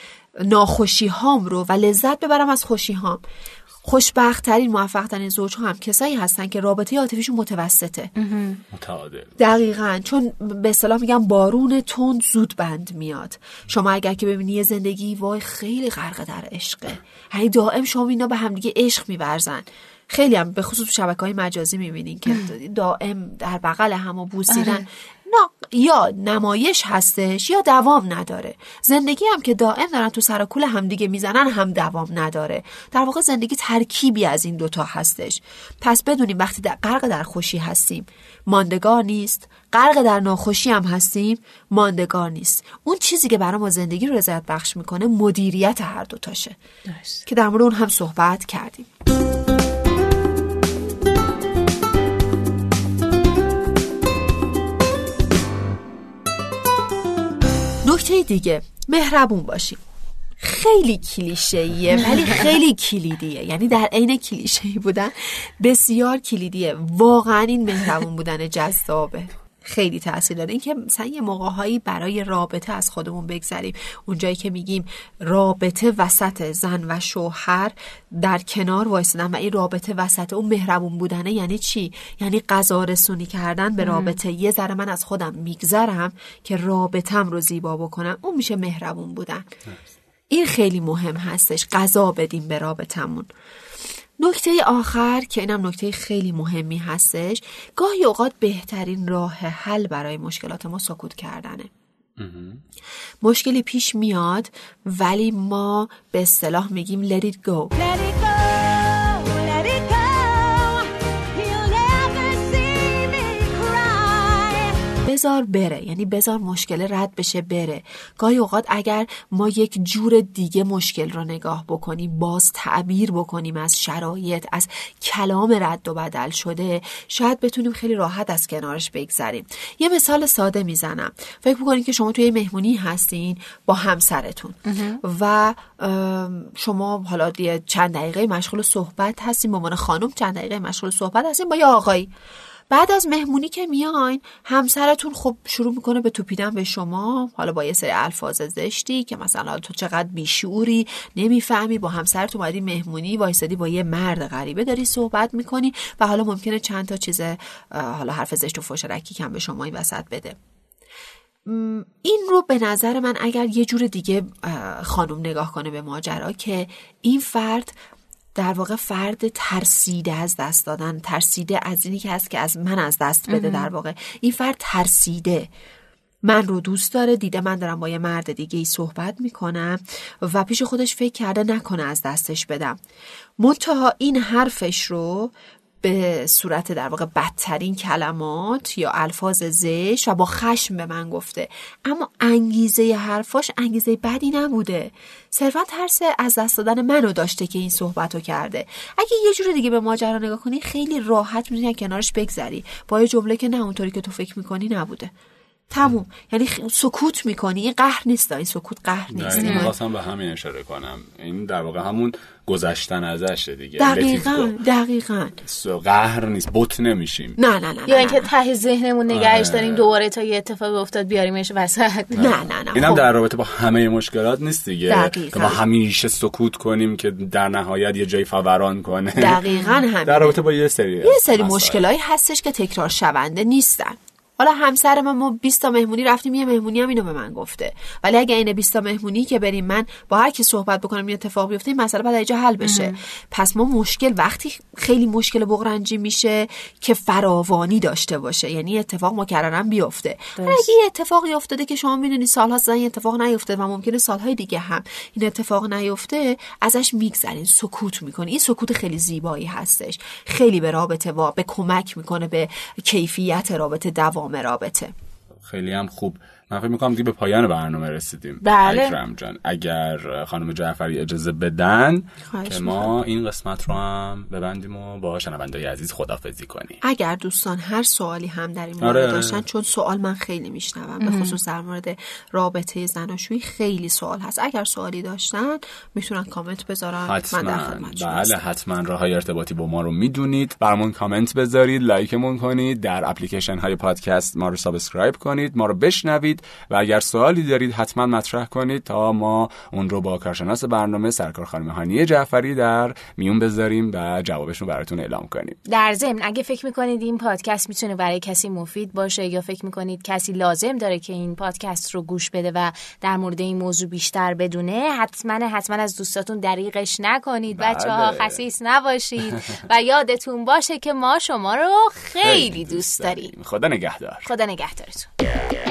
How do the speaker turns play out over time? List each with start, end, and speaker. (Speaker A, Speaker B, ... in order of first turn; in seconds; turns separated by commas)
Speaker A: 0.4-3.2, Speaker A: 3.8-8.1, Speaker B: 8.2-8.6, Speaker C: 8.7-9.3, Speaker A: 9.4-46.6, Speaker B: 24.5-24.8, Speaker B: 46.9-47.2, Speaker A: 47.2-48.9, Speaker A: 57.8-59.8, Speaker A: 60.4-89.5, Speaker B: 83.8-84.2, Speaker A: 90.3-93.3, Speaker A: 94.2-101.7, Speaker C: 102.2-102.6, Speaker A: 103.2-107.9, Speaker B: 108.1-110.8, Speaker B: 111.5-114.7, Speaker A: 114.9-142.1, Speaker B: 134.7-135.0, Speaker A: 142.7-160.4, Speaker A: 161.4-167.8, Speaker A: 168.3-175.5, Speaker B: 173.3-173.7, Speaker A: 176.2-182.8, Speaker A: 183.4-205.1, Speaker A: 205.7-209.7, Speaker C: 209.1-214.5, Speaker B: 209.4-209.7, Speaker A: 213.8-215.4, Speaker C: 215.5-217.4, Speaker A: 217.4-218.3, Speaker B: 217.9-222.3, Speaker C: 219.1-219.9, Speaker A: 222.2-223.1, Speaker C: 222.2-229.5, Speaker A: 224.9-225.6, Speaker A: 229.2-230.4, Speaker B: 229.5-229.8, Speaker C: 230.1-231.8, Speaker A: 231.0-264.9, Speaker B: 242.6-243.0, Speaker B: 250.4-250.7, Speaker C: 265.4-276.8, Speaker B: 268.4-268.9, Speaker A: 272.3-272.9, Speaker A: 276.8-288.4, Speaker C: 278.8-279.4, Speaker B: 281.0-281.4, Speaker C: 287.0-305.6, Speaker B: 305.7-323.3, Speaker C: 317.5-318.4, Speaker C: 322.2-324.3, Speaker B: 324.2-325.1